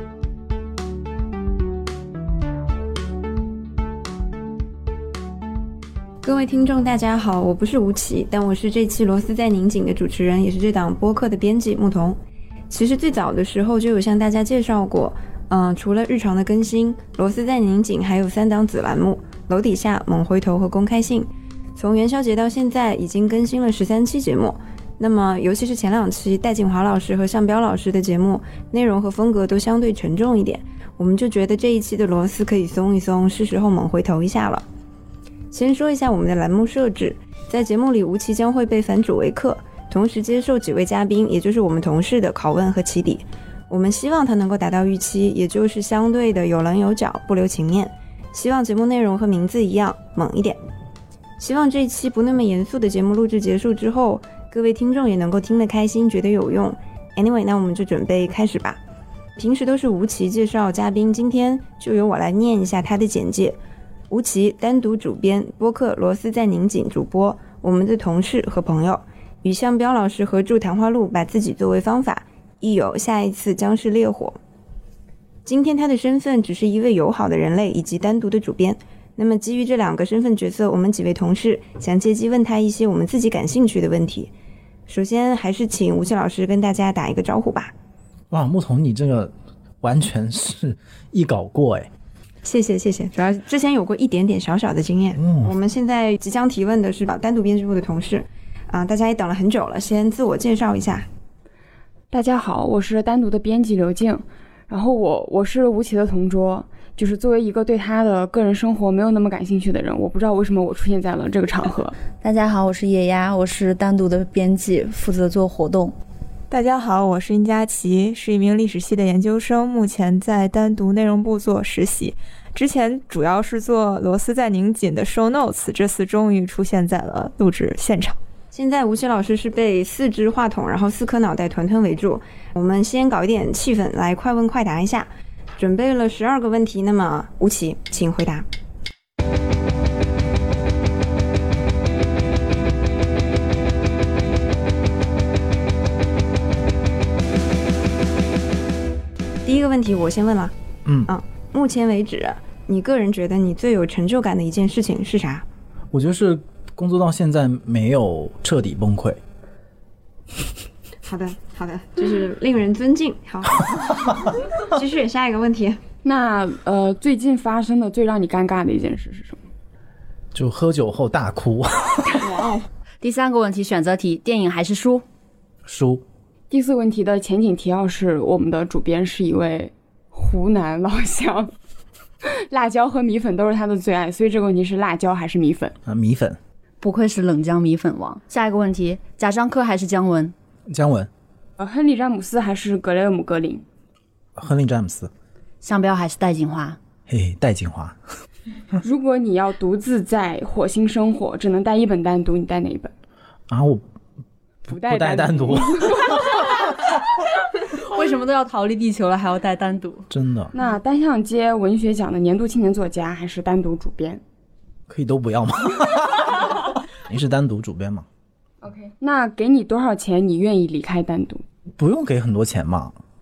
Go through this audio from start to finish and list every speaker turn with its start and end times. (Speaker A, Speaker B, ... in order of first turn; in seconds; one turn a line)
Speaker A: 6.2-12.2
Speaker A: 12.7-34.6
Speaker A: 35.5-50.6
Speaker A: 51.4-58.8
Speaker A: 59.4-63.6
Speaker A: 64.1-74.4
Speaker A: 75.5-84.3
Speaker A: 84.9-87.7
Speaker B: 88.3-91.9
Speaker A: 92.4-101.1
Speaker B: 95.2-95.5
Speaker C: 102.1-112.0
Speaker D: 112.2-116.0
Speaker E: 116.5-128.2
Speaker A: 128.5-138.5
Speaker A: 149.4-150.5
Speaker A: 151.0-155.4
Speaker B: 155.9-159.2
Speaker A: 161.0-165.8
Speaker C: 166.0-169.5
Speaker B: 170.3-172.3
Speaker A: 172.2-172.6
Speaker D: 173.0-175.0
Speaker B: 175.6-176.0
Speaker C: 176.5-181.5
Speaker C: 182.2-185.7
Speaker B: 185.8-186.4
Speaker D: 186.8-190.3
Speaker B: 190.7-191.1
Speaker C: 191.6-193.6
Speaker B: 194.4-195.1
Speaker D: 195.6-196.8
Speaker B: 197.1-198.0
Speaker C: 198.8-202.9
Speaker B: 203.5-203.8
Speaker B: 204.7-206.6
Speaker C: 204.7-206.6
Speaker D: 207.7-210.1
Speaker B: 210.1-210.5
Speaker C: 210.5-214.2
Speaker B: 214.9-218.1
Speaker C: 218.6-221.4
Speaker B: 221.8-223.0